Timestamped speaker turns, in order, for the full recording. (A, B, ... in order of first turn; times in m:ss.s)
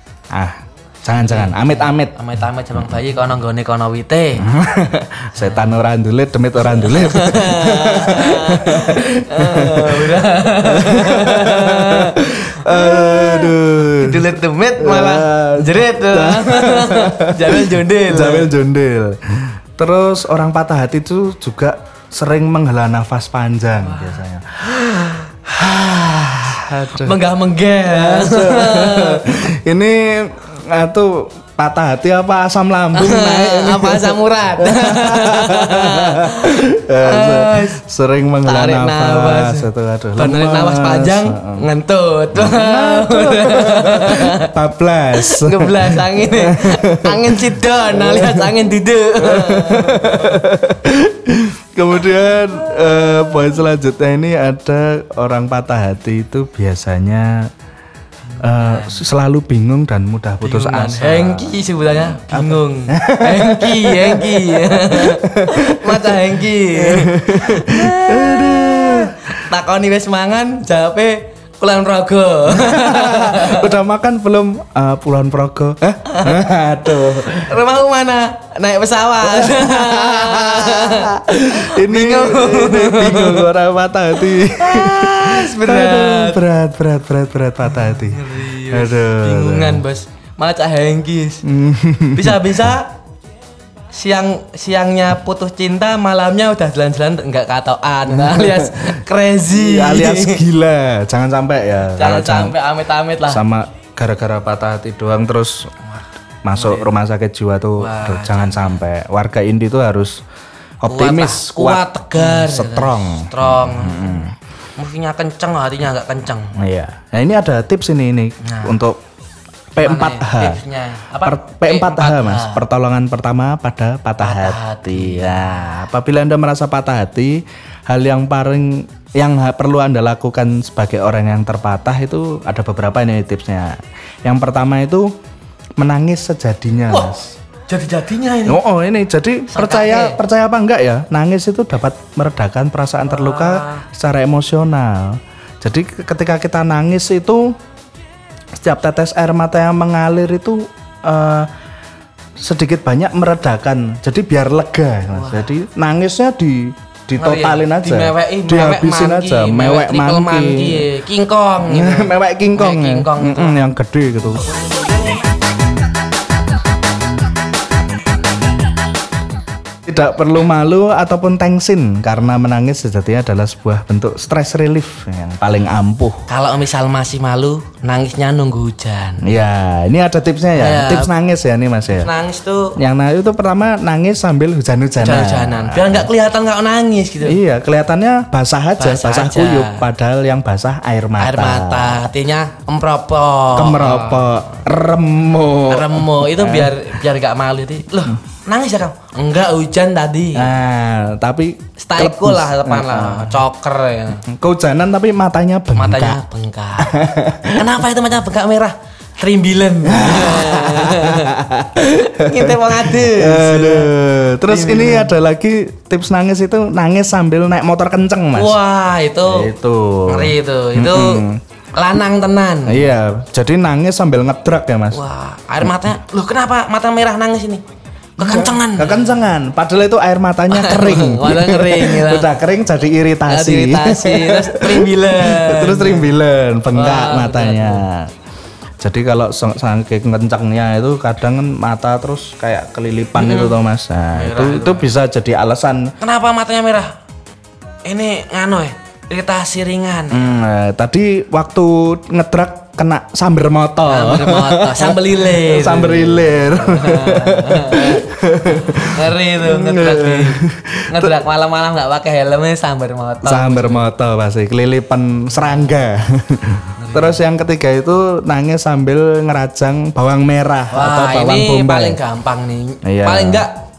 0:00.3-0:02.1 A
0:01.2-0:04.4 B
0:02.7-0:03.0 A
0:04.4-0:27.2 A
0:05.4-0:05.7 B
0:06.6-0:18.5 B
0:23.8-0:25.3 B
0:26.9-0:29.2 B
0:27.8-0:41.6 A
0:33.0-0:37.8 B
0:38.4-0:44.5 B
0:42.3-0:57.5 A
0:45.2-0:50.4 B
0:58.3-0:59.0 B
0:58.4-1:09.4 A
1:00.4-1:13.7 B
1:12.5-1:17.5 A
1:16.1-1:16.4 B
1:17.0-1:23.5 B
1:19.2-1:29.8 A
1:24.3-1:26.4 B
1:27.7-1:31.4 B
1:31.4-1:32.7 A
1:32.1-1:32.9 B
1:33.9-1:40.4 B
1:38.1-1:42.6 A
1:42.0-1:43.4 B
1:43.3-1:45.7 A
1:46.4-1:50.2 A
1:46.6-1:46.8 B
1:47.8-1:48.8 B
1:50.8-1:54.3 A
1:50.8-1:56.6 B
1:56.6-1:59.0 A
1:58.4-1:58.8 B
1:59.7-2:00.6 A
1:59.8-2:02.6 B
2:01.2-2:15.1 A
2:04.2-2:05.8 B
2:15.8-2:17.3 A
2:16.9-2:17.1 B
2:17.7-2:18.6 B
2:18.5-2:27.5 A
2:19.5-2:20.2 B
2:23.0-2:23.8 B
2:28.6-2:31.5 A
2:32.4-2:40.9 A
2:35.1-2:35.5 B
2:37.2-2:43.6 B
2:41.6-2:44.5 A
2:44.5-2:45.2 B
2:49.8-2:56.2 A
2:56.3-2:59.3 B
2:59.2-3:02.1 A
3:00.6-3:01.1 B
3:01.9-3:02.8 B
3:02.8-3:06.1 A
3:05.0-3:07.4 B
3:07.2-3:12.1 A
3:08.8-3:09.8 B
3:11.2-3:14.5 B
3:13.5-3:17.0 A
3:15.7-3:20.5 B
3:20.3-3:23.4 A
3:21.8-3:24.2 B
3:24.3-3:26.2 A
3:25.7-3:26.9 B
3:26.8-3:27.7 A
3:27.5-3:33.9 B
3:29.8-3:38.5 A
3:34.5-3:35.2 B
3:38.3-3:39.5 B
3:39.2-3:41.4 A
3:40.1-3:42.9 B
3:42.6-3:45.0 A
3:44.9-3:47.6 B
3:45.6-3:45.9 A
3:48.2-3:49.1 B
3:48.2-3:58.1 A
3:50.5-3:52.3 B
3:53.3-3:56.1 B
3:56.7-3:57.8 B
3:58.8-4:05.9 A
4:03.2-4:03.6 B
4:04.1-4:04.9 B
4:06.0-4:06.9 B
4:07.8-4:10.4 B
4:10.1-4:21.2 A
4:13.9-4:23.9 B
4:23.2-4:32.0 A
4:26.8-4:27.2 B
4:30.7-4:33.5 B
4:32.8-4:33.5 A